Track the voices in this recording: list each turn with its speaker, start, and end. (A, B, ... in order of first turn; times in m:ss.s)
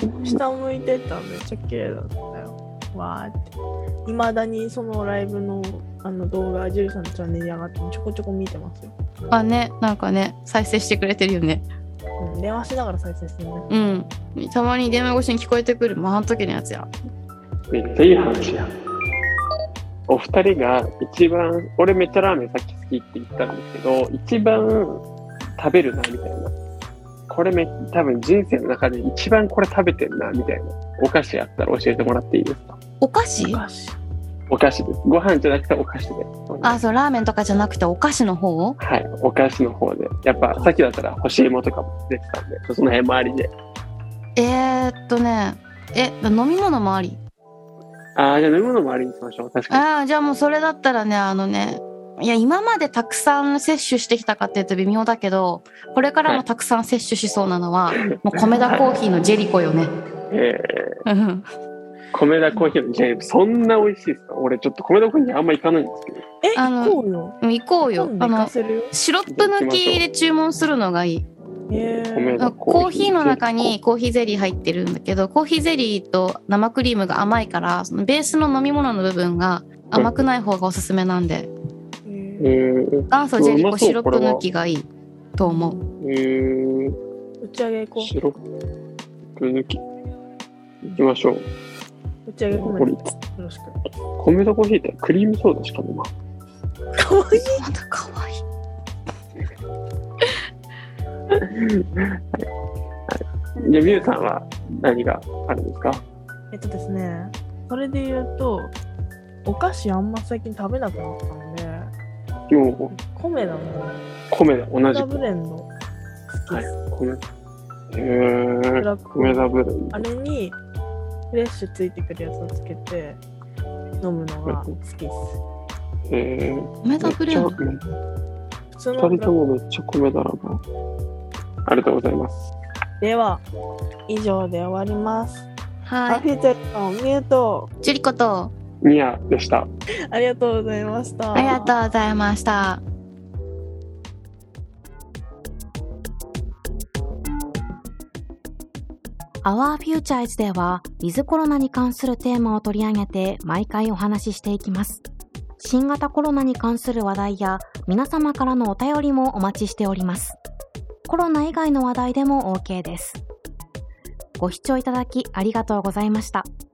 0:00.2-0:03.5 A
0:04.0-0:08.9 A
0:09.3-0:11.6 B
0:12.2-0:13.7 A
0:13.7-0:16.9 B
0:17.7-0:18.7 C
0:20.1-0:25.0 C
0:25.6-0:26.5 C
0:27.3-0:32.8 C
0:33.0-0:33.6 B
0:33.4-0:34.0 A
0:34.5-0:36.8 C
0:36.6-0:38.8 B
0:38.8-0:43.5 C
0:40.4-0:40.7 A
0:44.4-0:47.2 B
0:48.2-0:49.8 C
0:49.7-0:59.9 B
0:58.6-0:58.9 C
1:00.3-1:01.0 C
1:01.0-1:01.5 B
1:02.1-1:06.2 C
1:06.4-1:08.9 A
1:06.6-1:11.2 B
1:09.3-1:10.0 C
1:11.7-1:12.4 A
1:11.9-1:13.7 C
1:12.4-1:21.5 B
1:22.0-1:22.6 A
1:22.4-1:24.4 C
1:23.1-1:25.8 B
1:25.4-1:25.9 A
1:26.0-1:27.0 C
1:27.4-1:28.1 A
1:28.0-1:28.4 C
1:29.3-1:29.8 C
1:30.8-1:31.4 C
1:32.2-1:33.8 A
1:32.5-1:33.1 C
1:34.2-1:36.1 C
1:36.9-1:37.6 A
1:37.6-1:38.4 B
1:41.3-1:42.4 C
1:43.1-1:46.0 C
1:46.5-1:48.7 A
1:49.4-1:51.9 A
1:52.5-1:53.0 C
1:53.1-1:54.0 A
1:54.3-1:55.2 C
1:54.9-1:55.7 A
1:56.3-1:56.7 A
1:56.5-1:57.2 C
1:57.9-2:00.0 C
1:58.8-2:00.6 A
2:01.3-2:03.2 A
2:04.0-2:05.4 A
2:04.4-2:04.7 C
2:06.1-2:07.8 C
2:06.8-2:07.6 B
2:08.8-2:09.4 A
2:09.0-2:10.6 C
2:11.6-2:12.4 C
2:13.0-2:13.4 A
2:14.1-2:15.5 A
2:15.8-2:16.3 B
2:16.1-2:17.7 A
2:17.8-2:18.5 B
2:18.8-2:19.7 C
2:20.1-2:21.7 A
2:21.3-2:22.8 B
2:29.4-2:35.0 D
2:35.6-2:40.4 D
2:41.0-2:43.2 D
2:44.4-2:46.5 D